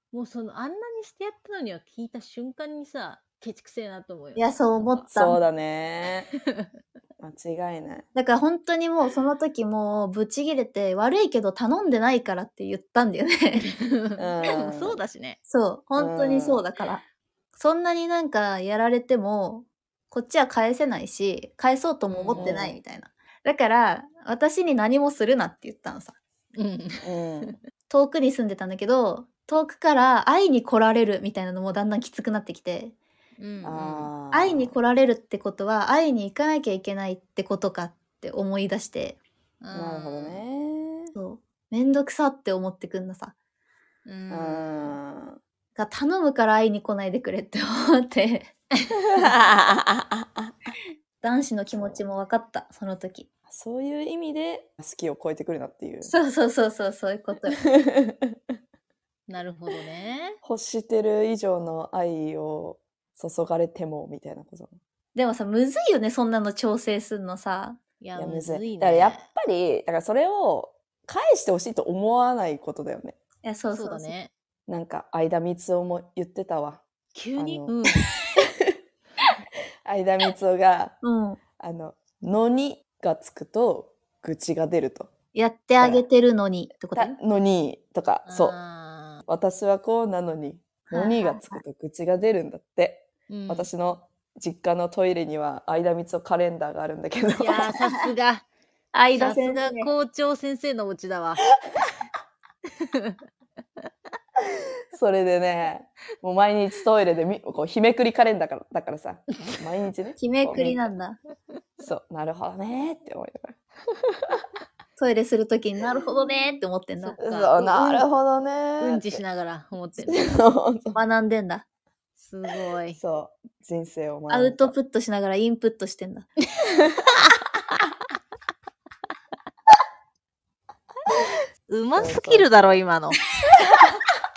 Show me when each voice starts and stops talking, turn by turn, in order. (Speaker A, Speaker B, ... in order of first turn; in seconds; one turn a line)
Speaker A: 0.1-5.1
Speaker B: 4.3-5.4
Speaker C: 5.1-6.3
Speaker C: 7.2-8.1
Speaker B: 8.1-13.7
Speaker A: 13.6-15.4
Speaker C: 14.2-15.0
Speaker B: 15.5-17.0
Speaker C: 15.9-16.6
Speaker B: 17.5-26.1
Speaker A: 22.1-22.6
Speaker C: 22.3-22.8
Speaker A: 26.5-27.5
Speaker C: 27.0-27.6
Speaker B: 27.9-32.9
Speaker A: 33.4-34.1
Speaker C: 33.6-34.7
Speaker B: 34.3-39.2
Speaker A: 39.6-40.4
Speaker C: 39.7-41.1
Speaker B: 41.1-43.3
Speaker A: 44.0-45.0
Speaker C: 44.3-45.4
Speaker B: 45.8-48.5
Speaker C: 49.1-50.5
Speaker B: 51.2-53.3
Speaker C: 53.5-56.1
Speaker B: 56.0-57.6
Speaker C: 57.8-58.3
Speaker A: 59.3-60.4
Speaker C: 60.4-64.8
Speaker B: 65.1-67.8
Speaker A: 68.0-69.2
Speaker C: 68.2-73.2
Speaker B: 73.4-74.1
Speaker A: 73.7-74.3
Speaker C: 74.7-76.8
Speaker A: 77.1-78.0
Speaker C: 77.4-77.8
Speaker C: 79.8-81.0
Speaker B: 81.0-81.4
Speaker C: 81.6-85.1
Speaker B: 85.3-87.2
Speaker C: 85.8-86.0
Speaker C: 86.9-88.6
Speaker A: 88.2-89.2
Speaker C: 89.3-97.8
Speaker B: 90.9-91.6
Speaker A: 93.3-93.7
Speaker A: 97.3-98.4
Speaker B: 98.9-99.9
Speaker A: 99.1-101.4
Speaker C: 104.9-110.9
Speaker B: 110.2-111.2
Speaker C: 111.8-113.6
Speaker C: 114.1-114.4
Speaker B: 115.0-117.5
Speaker A: 117.0-118.0
Speaker C: 117.2-119.2
Speaker A: 118.8-120.2
Speaker C: 120.0-121.0
Speaker B: 120.9-121.6
Speaker A: 122.2-123.0
Speaker C: 123.0-124.7
Speaker B: 124.3-126.3
Speaker A: 131.7-133.2
Speaker C: 131.9-132.8